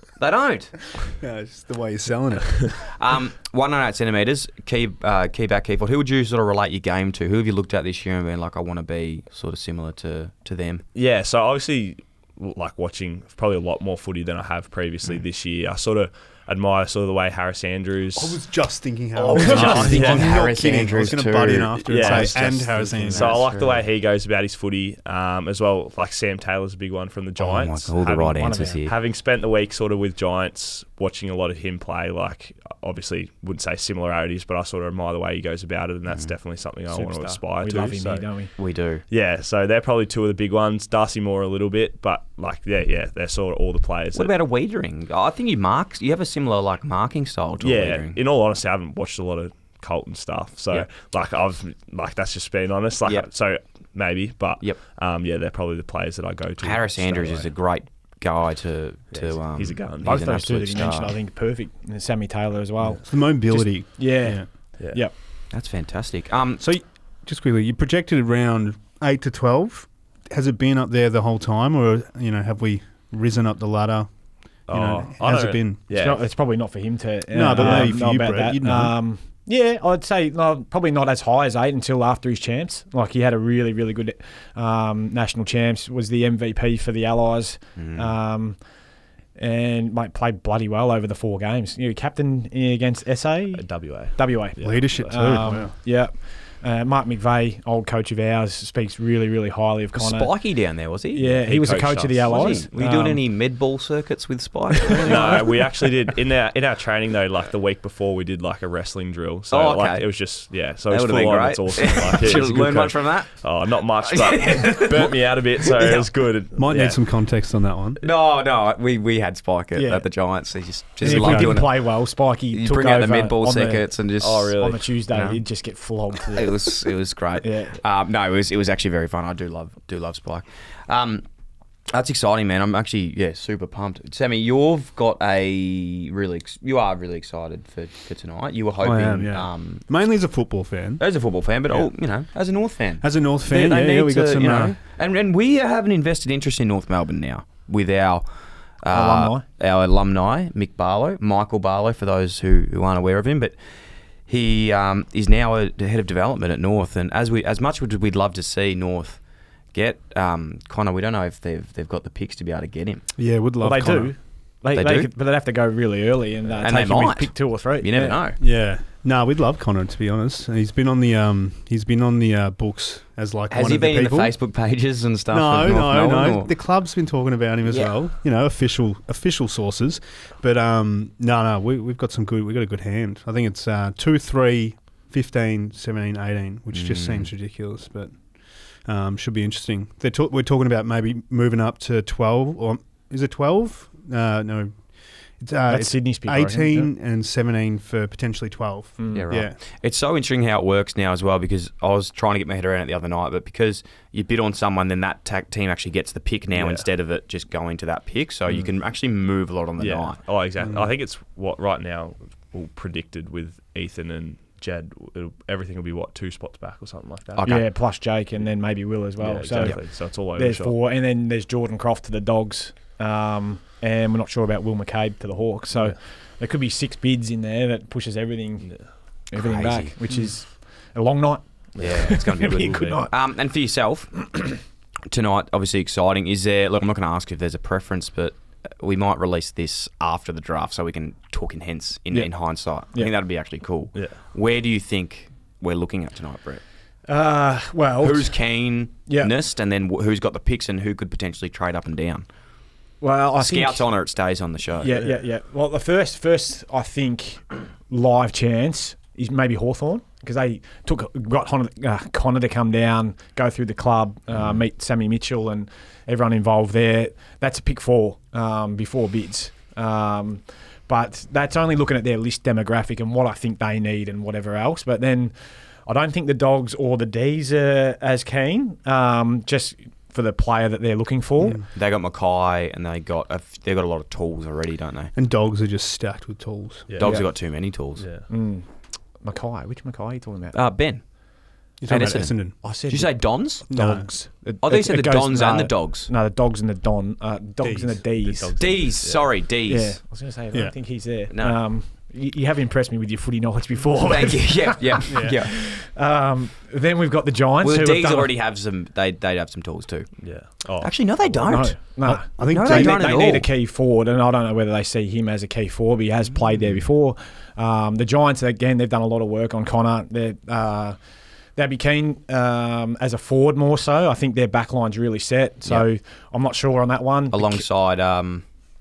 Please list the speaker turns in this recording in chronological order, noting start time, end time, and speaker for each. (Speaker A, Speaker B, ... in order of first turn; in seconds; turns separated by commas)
Speaker A: 0.2-0.7, Speaker B: 1.0-2.8, Speaker A: 2.9-10.8, Speaker C: 10.9-18.4, Speaker B: 18.1-23.5, Speaker A: 19.2-23.8, Speaker C: 19.5-20.3, Speaker C: 21.9-38.5, Speaker A: 27.4-28.9, Speaker D: 28.4-28.8, Speaker D: 36.9-38.5, Speaker A: 38.6-39.0, Speaker C: 39.1-44.3, Speaker A: 44.1-48.2, Speaker C: 47.6-57.5, Speaker A: 56.6-61.2, Speaker C: 59.1-60.3, Speaker D: 60.0-65.1, Speaker B: 63.0-64.5, Speaker A: 65.5-66.6, Speaker B: 66.6-74.1, Speaker B: 74.7-75.8, Speaker C: 74.7-76.3, Speaker D: 75.9-88.6, Speaker B: 77.3-79.0, Speaker C: 77.6-77.9, Speaker A: 87.8-88.1, Speaker D: 89.4-100.6, Speaker C: 93.5-95.1, Speaker B: 94.6-95.8, Speaker A: 99.9-101.4, Speaker D: 101.1-103.2, Speaker C: 101.4-102.6, Speaker A: 102.2-105.5, Speaker C: 105.0-117.0, Speaker A: 109.5-110.1, Speaker A: 110.9-113.5, Speaker A: 114.0-116.1, Speaker B: 116.6-118.0, Speaker A: 118.0-122.0, Speaker D: 119.8-120.1, Speaker D: 121.0-123.8, Speaker B: 121.1-121.6, Speaker A: 122.5-124.6, Speaker C: 124.2-124.8, Speaker D: 124.6-126.6, Speaker A: 125.1-125.4, Speaker A: 126.3-131.2, Speaker D: 127.4-127.8, Speaker A: 131.9-139.8, Speaker B: 138.8-141.0, Speaker A: 141.0-148.3, Speaker B: 143.0-144.8, Speaker A: 148.8-153.6, Speaker D: 148.9-149.4, Speaker A: 154.3-159.2, Speaker A: 159.7-163.0, Speaker B: 163.2-164.1, Speaker D: 163.6-168.2, Speaker A: 164.7-165.1, Speaker A: 166.6-168.4, Speaker B: 168.4-174.3, Speaker A: 173.5-176.5, Speaker B: 175.3-188.2, Speaker A: 177.7-177.9, Speaker A: 186.7-187.3, Speaker B: 188.8-194.8, Speaker B: 195.4-199.6, Speaker D: 195.7-196.9, Speaker D: 199.0-199.2, Speaker A: 199.1-210.2, Speaker C: 206.6-206.8, Speaker C: 209.8-217.5, Speaker B: 210.6-210.9, Speaker A: 217.4-217.7, Speaker D: 217.4-228.7, Speaker C: 219.2-220.8, Speaker D: 229.3-233.1, Speaker A: 229.3-230.0, Speaker C: 231.8-233.0, Speaker A: 231.8-234.4, Speaker A: 235.1-246.6, Speaker D: 247.1-248.4, Speaker A: 248.0-252.3, Speaker D: 249.1-249.3, Speaker D: 253.0-253.9, Speaker A: 253.4-255.0, Speaker D: 254.8-281.6, Speaker A: 264.3-264.6, Speaker A: 281.7-285.1, Speaker B: 285.1-286.9, Speaker C: 286.9-287.2, Speaker A: 287.0-288.1, Speaker D: 287.0-287.3, Speaker C: 288.0-288.3, Speaker D: 288.3-288.7, Speaker D: 289.2-290.6, Speaker A: 290.5-291.1, Speaker B: 291.8-292.6, Speaker A: 291.9-293.7, Speaker D: 292.6-298.6, Speaker B: 293.7-294.1, Speaker A: 294.6-296.1, Speaker B: 297.6-298.0, Speaker C: 298.2-299.3, Speaker A: 298.6-300.0, Speaker D: 299.7-308.3, Speaker A: 301.3-301.6, Speaker A: 304.0-305.6, Speaker B: 305.1-305.4, Speaker A: 307.6-310.1, Speaker C: 310.2-311.4, Speaker A: 310.8-313.5, Speaker D: 311.4-321.0, Speaker B: 312.1-313.3, Speaker A: 316.6-316.8, Speaker D: 321.6-327.6, Speaker A: 327.3-328.4